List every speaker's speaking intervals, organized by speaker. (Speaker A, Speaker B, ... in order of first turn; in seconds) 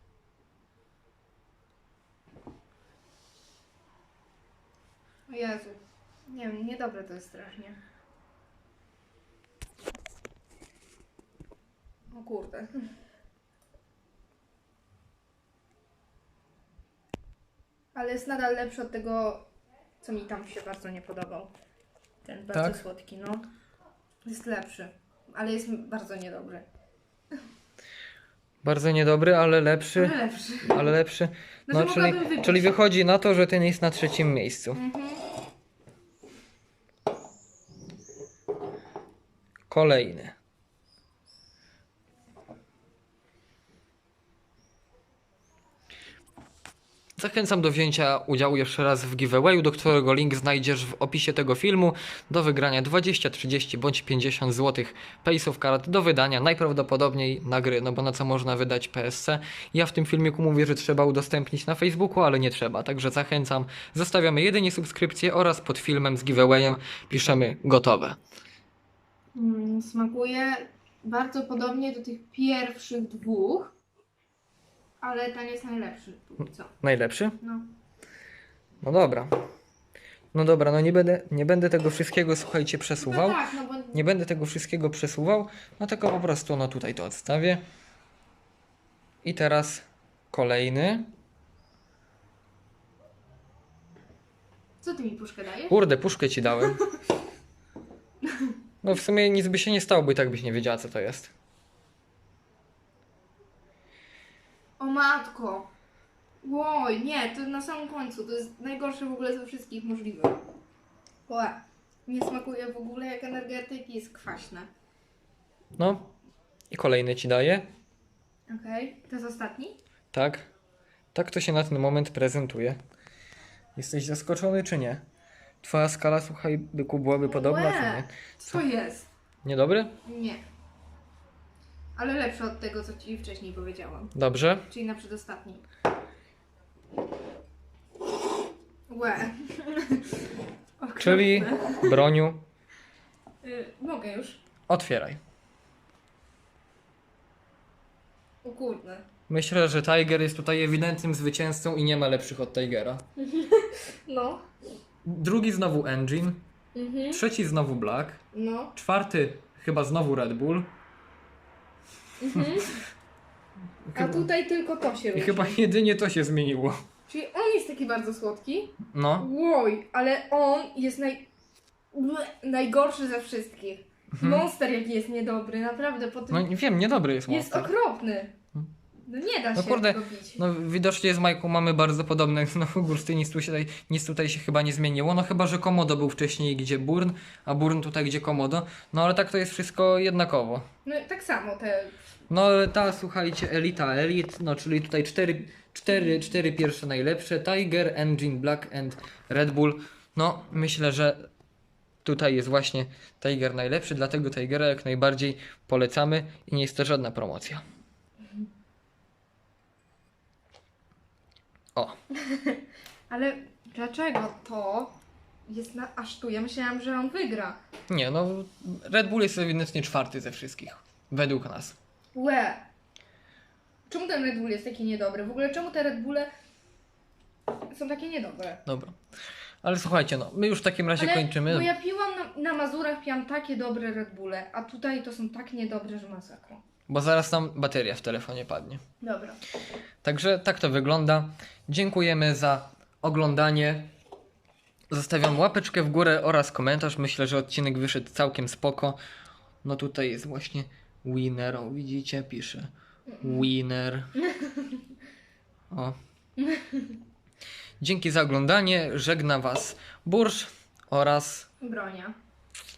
Speaker A: 5.3-7.8, 12.1-12.9, 17.9-19.5, 20.0-21.5, 22.2-23.4, 24.2-26.7, 29.9-30.9, 31.7-32.8, 34.7-35.2, 69.3-73.7, 75.0-76.7, 77.4-77.7, 83.0-84.0, 94.8-95.8, 96.6-97.0, 98.2-98.5, 104.8-105.7, 106.4-110.4, 111.3-114.7, 118.5-119.8, 127.2-129.1, 130.0-130.4, 131.9-134.1, 134.7-135.6, 138.9-140.3, 140.8-142.0, 143.4-144.4, 148.4-149.1, 153.2-154.4, 156.7-157.2, 158.3-158.7, 162.2-162.8, 163.9-165.6, 167.1-171.3, 171.9-176.5, 177.3-178.3, 179.1-180.4, 190.8-191.9, 212.1-217.6, 222.1-222.6, 223.9-226.3, 227.7-228.6, 231.0-236.6, 239.0-239.4, 253.1-253.5, 254.2-254.9, 256.4-257.0, 261.6-262.1
Speaker B: 22.5-22.8, 28.6-34.8, 39.7-40.4, 47.2-68.2, 76.8-77.4, 78.8-79.3, 80.3-83.4, 83.9-87.6, 89.2-91.1, 95.7-96.8, 98.8-101.3, 115.8-116.1, 116.7-117.7, 120.1-120.5, 121.1-122.8, 123.8-125.0, 125.6-128.6, 129.4-129.9, 134.1-134.7, 141.0-142.5, 144.7-145.2, 149.3-153.0, 155.0-156.4, 157.1-158.2, 158.7-160.7, 162.3-162.6, 163.8-164.3, 165.1-166.8, 168.8-169.3, 174.1-174.4, 176.3-177.7, 179.5-190.7, 192.3-201.3, 202.0-207.6, 217.9-221.8, 228.7-229.0, 229.6-231.7, 236.9-238.8, 240.0-243.9, 244.9-249.0, 249.6-252.7, 253.2-254.1, 255.7-255.9, 257.8-261.5